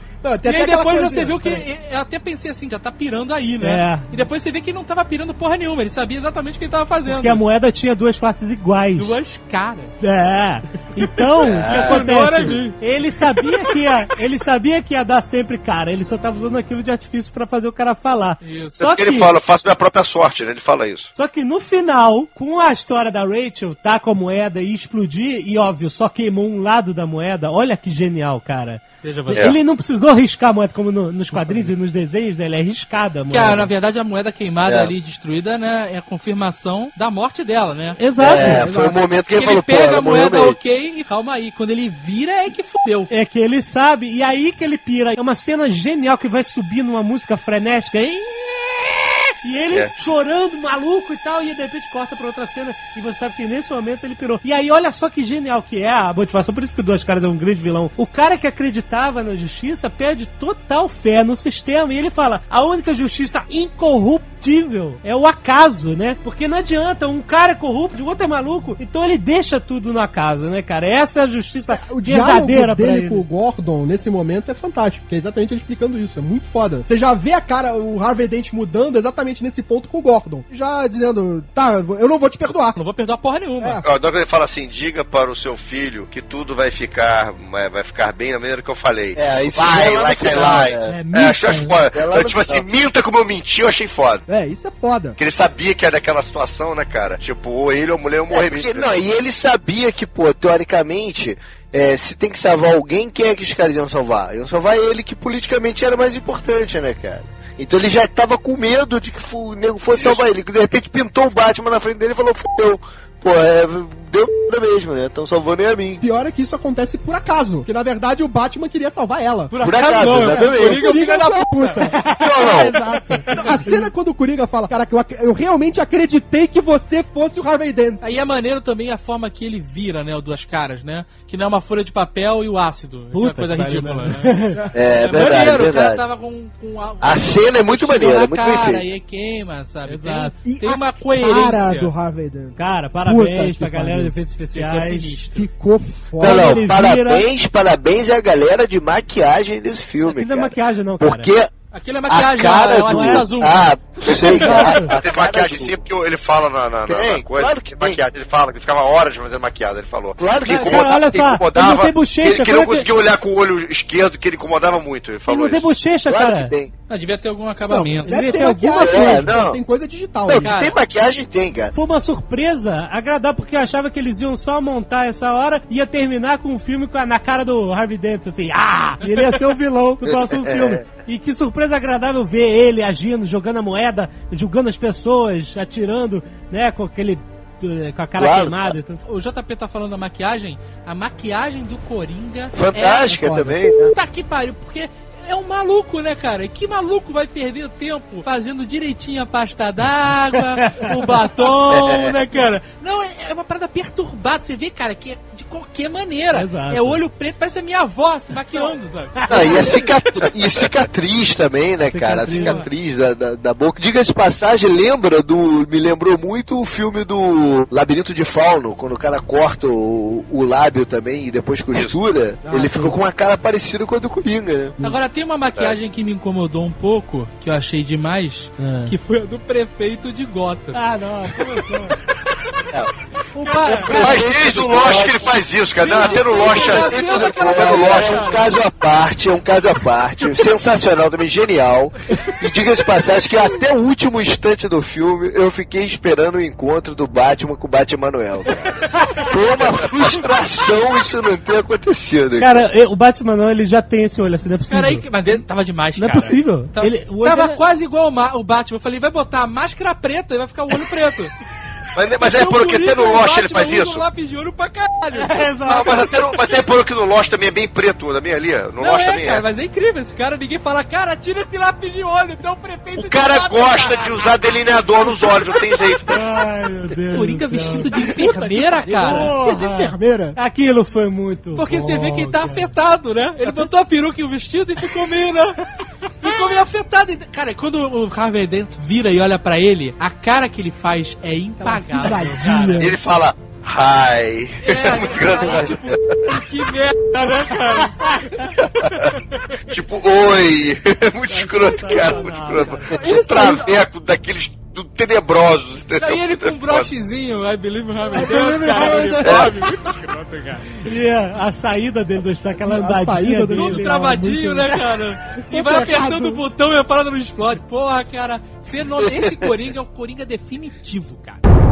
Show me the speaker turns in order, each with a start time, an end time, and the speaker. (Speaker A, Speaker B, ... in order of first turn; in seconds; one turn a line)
Speaker A: 0.2-1.6
Speaker B: 0.4-7.4
Speaker C: 3.6-4.1
Speaker C: 7.1-9.2
Speaker B: 8.9-9.9
Speaker C: 10.0-19.4
Speaker D: 11.5-12.1
Speaker B: 11.7-12.8
Speaker B: 13.4-13.8
Speaker B: 18.4-18.8
Speaker E: 18.8-21.1
Speaker C: 21.1-33.7
Speaker B: 29.0-29.5
Speaker E: 29.3-29.6
Speaker B: 33.3-38.0
Speaker D: 34.6-34.9
Speaker C: 38.0-38.7
Speaker D: 38.2-40.6
Speaker A: 38.2-39.0
Speaker B: 39.3-43.1
Speaker C: 43.1-73.2
Speaker A: 71.7-82.8
Speaker B: 82.7-83.8
Speaker E: 83.8-94.2
Speaker D: 89.1-91.0
Speaker C: 90.8-91.7
Speaker D: 91.7-92.7
Speaker A: 94.3-95.2
Speaker E: 95.2-98.9
Speaker D: 98.3-116.0
Speaker E: 109.9-110.2
Speaker A: 116.0-128.0
Speaker B: 119.5-121.9
Speaker D: 119.6-120.9
Speaker C: 121.9-123.8
Speaker E: 122.2-122.6
Speaker D: 122.3-122.7
Speaker B: 123.3-123.8
Speaker B: 128.0-141.9
Speaker C: 133.1-134.6
Speaker D: 134.7-136.0
Speaker D: 137.0-138.9
Speaker C: 139.8-140.3
Speaker A: 140.4-144.1
Speaker C: 142.6-145.2
Speaker B: 144.5-145.5
Speaker A: 145.3-146.7
Speaker D: 146.2-151.5
Speaker C: 146.2-147.2
Speaker C: 150.1-151.3
Speaker B: 151.7-154.8
Speaker D: 152.1-155.8
Speaker C: 152.8-153.2
Speaker C: 154.4-154.9
Speaker E: 154.8-165.7
Speaker D: 156.8-158.0
Speaker D: 160.2-160.9
Speaker C: 160.5-162.9
Speaker C: 165.3-166.5
Speaker D: 166.1-166.7
Speaker B: 166.9-168.3
Speaker A: 167.7-170.6
Speaker C: 168.0-169.3
Speaker D: 168.8-169.6
Speaker D: 170.2-171.7
Speaker B: 170.3-170.7
Speaker C: 171.7-189.0
Speaker D: 180.0-180.8
Speaker D: 188.2-188.7
Speaker B: 189.0-193.2
Speaker D: 192.5-193.9
Speaker A: 193.1-193.6
Speaker B: 193.9-209.7
Speaker C: 200.6-200.9
Speaker D: 201.7-202.1
Speaker C: 206.3-207.0
Speaker C: 209.2-209.6
Speaker D: 209.3-224.8
Speaker C: 211.9-212.6
Speaker B: 212.3-212.7
Speaker E: 221.7-222.0
Speaker A: 222.4-223.0
Speaker B: 224.8-230.8
Speaker C: 228.6-228.9
Speaker C: 230.7-232.0
Speaker C: 233.3-234.2
Speaker B: 233.4-233.9
Speaker D: 233.8-235.3
Speaker E: 233.9-238.4
Speaker B: 235.8-238.4
Speaker C: 236.0-237.0
Speaker D: 236.8-252.6
Speaker C: 252.4-255.1
Speaker B: 254.7-261.3
Speaker C: 255.9-257.6
Speaker E: 261.9-264.0
Speaker B: 262.2-265.5
Speaker C: 265.1-266.1
Speaker E: 265.7-269.4
Speaker B: 268.8-274.5
Speaker E: 273.0-276.2
Speaker C: 276.1-282.7
Speaker B: 277.1-279.3
Speaker A: 278.1-280.4
Speaker B: 281.6-285.6
Speaker B: 286.2-292.9
Speaker A: 291.6-292.9
Speaker C: 292.0-292.8
Speaker E: 292.8-296.2
Speaker B: 294.6-298.4
Speaker C: 298.0-298.5
Speaker E: 298.8-299.1
Speaker E: 299.7-306.9
Speaker C: 301.3-302.9
Speaker A: 302.9-303.8
Speaker B: 306.0-310.8
Speaker A: 308.1-309.5
Speaker C: 308.2-309.1
Speaker C: 310.8-314.7
Speaker A: 312.6-314.8
Speaker B: 313.5-321.4
Speaker A: 315.4-316.4